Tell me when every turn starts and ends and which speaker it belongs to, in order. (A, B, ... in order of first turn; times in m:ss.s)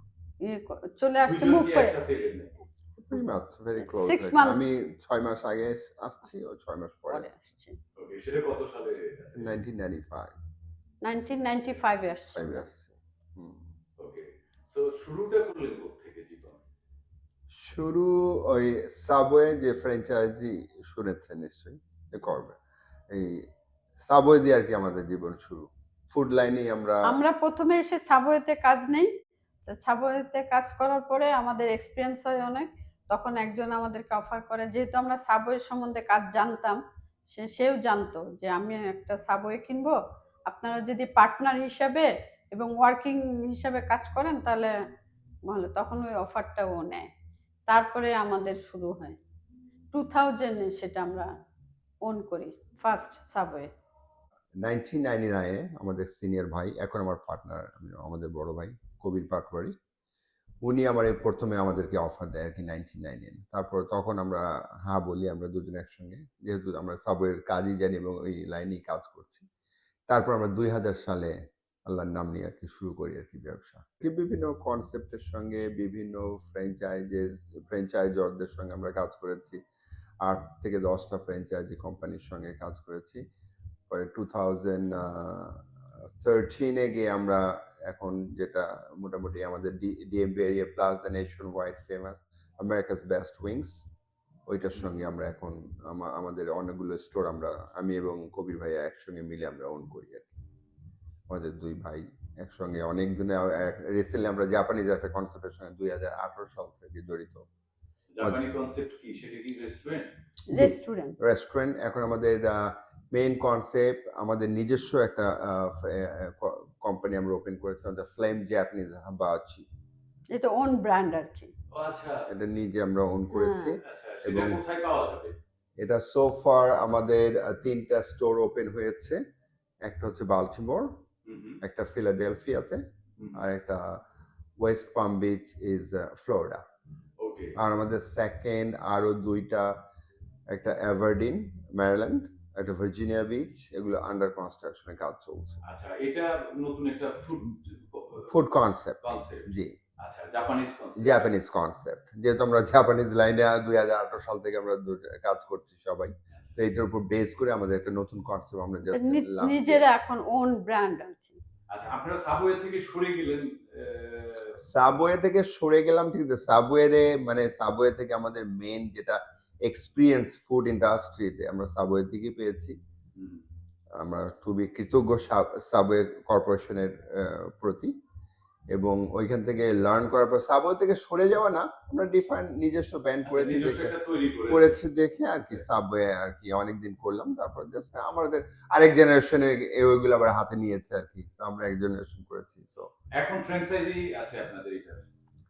0:00.4-0:02.0 A
0:01.2-0:02.5 B
0:03.0-0:07.4 C
0:03.8-0:04.7 A
0:07.1-0:07.8 A
0:08.0-0:09.5 B
0:09.4-0:10.3 C
0:11.0-0:12.6 A
0:12.4-0:13.7 C
0:14.0-0:16.6 B
0:17.5-0:22.6 C
0:23.1-0:23.5 C
0:24.0-0:27.2 C
0:27.1-0:29.1 A
0:29.7-0:40.0 A
0:40.5-0:44.7 A
0:45.5-0:47.1 A
0:47.7-0:49.2 A
0:49.9-0:51.3 A
0:52.0-0:53.7 A
0:54.6-0:59.8 C
1:00.6-1:09.5 C
1:10.1-1:19.6 C
1:20.2-1:23.2 C
1:23.9-1:25.6 C
1:26.2-1:33.8 C
1:34.5-1:40.4 C
1:34.8-1:35.1 B
1:41.3-1:47.5 C
1:48.2-1:50.1 B
1:50.5-1:51.2 A
1:50.5-1:59.7 C
2:00.3-2:01.5 A
2:01.7-2:02.3 B
2:02.3-2:04.6 C
2:03.3-2:03.8 A
2:03.8-2:05.4 B
2:05.8-2:09.2 C
2:09.8-2:11.0 C
2:11.2-2:11.6 B
2:11.6-2:14.0 C
2:14.6-2:16.6 C
2:17.2-2:17.6 B
2:17.6-2:19.8 C
2:20.5-2:25.6 C
2:25.6-2:28.3 B
2:28.2-2:29.8 C
2:29.0-2:29.5 B
2:30.0-2:31.3 B
2:31.0-2:39.9 C
2:36.3-2:36.6 B
2:38.9-2:41.4 A
2:41.7-2:44.6 B
2:44.6-2:52.8 C
2:53.2-2:53.4 B
2:54.0-2:57.9 C
2:58.7-3:03.9 C
3:03.2-3:05.6 B
3:04.5-3:12.9 C
3:13.2-3:15.0 B